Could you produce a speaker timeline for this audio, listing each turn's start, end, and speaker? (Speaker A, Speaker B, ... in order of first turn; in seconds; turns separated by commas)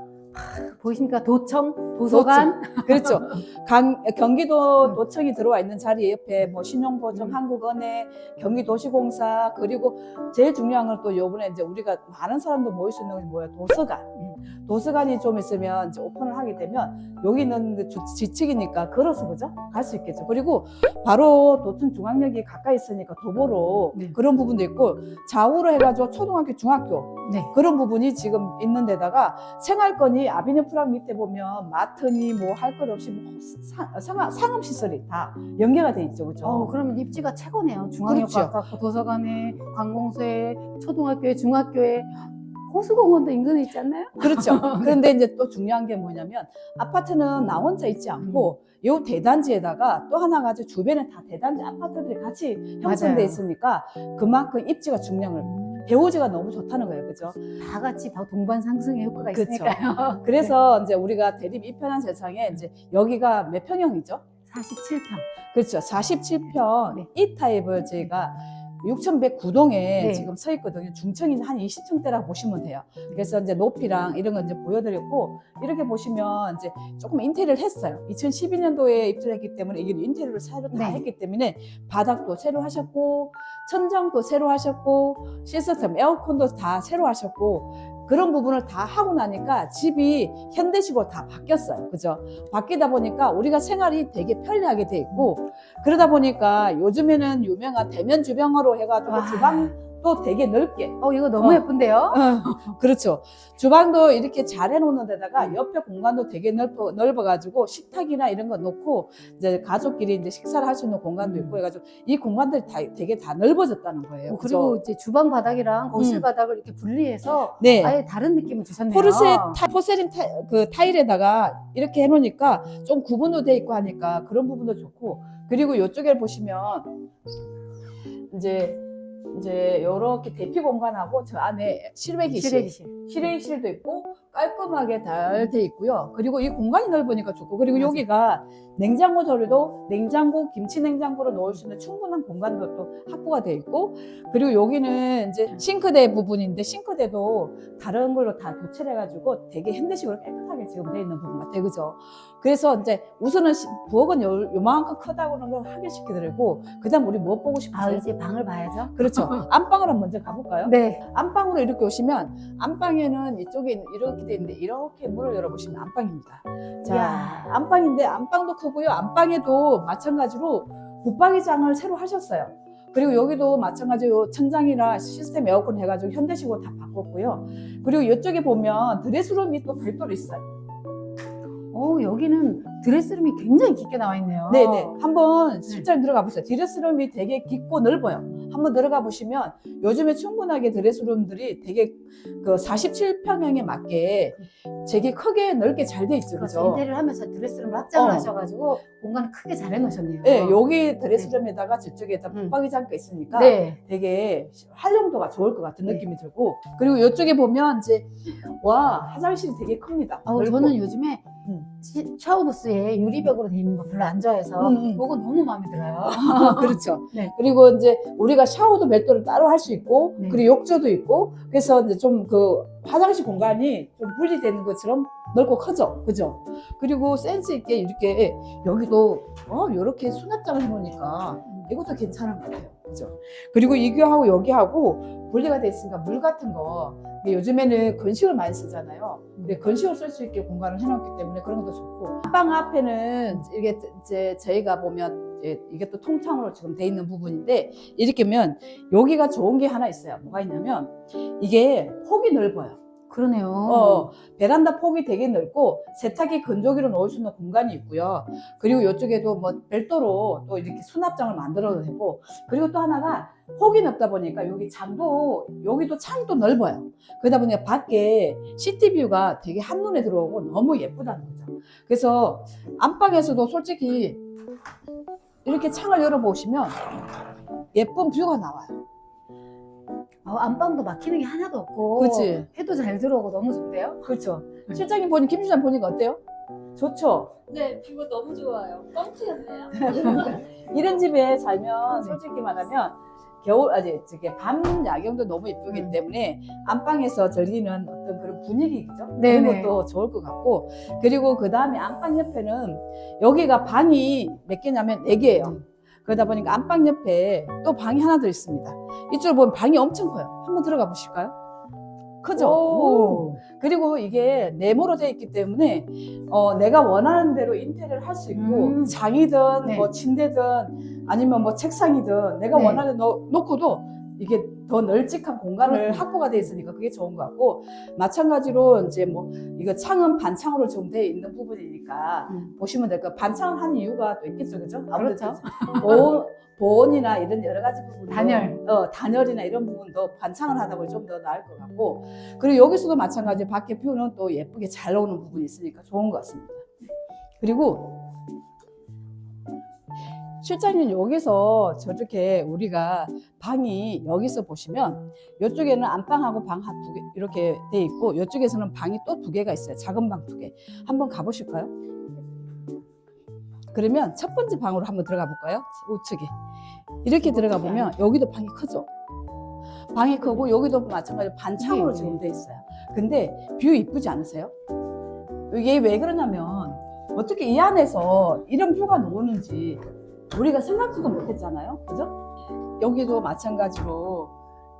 Speaker A: 0.3-3.4, Speaker B: 2.1-36.7, Speaker A: 36.4-44.9, Speaker B: 38.0-38.5, Speaker B: 44.2-57.4, Speaker A: 48.2-48.5, Speaker A: 52.8-53.4, Speaker A: 57.4-60.5, Speaker B: 59.3-64.2, Speaker A: 64.5-65.2, Speaker B: 65.5-114.8, Speaker A: 70.0-70.3, Speaker A: 80.7-81.0, Speaker A: 99.1-99.7, Speaker A: 101.0-102.2, Speaker A: 111.2-111.5, Speaker A: 114.3-119.6, Speaker B: 115.9-116.2, Speaker B: 117.6-118.0, Speaker B: 118.9-126.9, Speaker B: 128.3-158.1, Speaker A: 132.3-133.1, Speaker A: 137.7-138.0, Speaker A: 157.7-159.4, Speaker B: 158.9-180.4, Speaker A: 160.6-161.0, Speaker A: 166.8-167.5, Speaker A: 181.7-185.0, Speaker B: 184.5-196.8, Speaker A: 196.3-200.6, Speaker B: 197.9-198.3, Speaker B: 200.2-210.8, Speaker A: 203.3-203.8, Speaker A: 210.2-217.3, Speaker B: 214.6-215.0, Speaker B: 216.1-252.8, Speaker A: 253.1-254.1, Speaker B: 253.7-274.2, Speaker B: 275.4-276.8, Speaker B: 277.7-278.8, Speaker A: 280.2-284.1, Speaker B: 281.9-282.5, Speaker B: 284.0-286.2, Speaker B: 286.8-287.4, Speaker C: 287.5-290.6, Speaker B: 289.8-311.3, Speaker A: 299.1-299.7, Speaker B: 312.2-346.7, Speaker A: 312.3-313.4, Speaker A: 318.3-318.9, Speaker A: 322.5-322.8, Speaker A: 325.6-326.0, Speaker A: 334.9-336.1, Speaker A: 338.1-338.6, Speaker B: 347.4-348.0, Speaker B: 350.4-361.7, Speaker B: 363.7-366.3, Speaker B: 367.0-368.9, Speaker A: 367.2-367.9, Speaker B: 369.9-374.5, Speaker A: 371.6-372.2, Speaker B: 375.5-379.8, Speaker B: 380.3-382.1, Speaker B: 382.8-384.3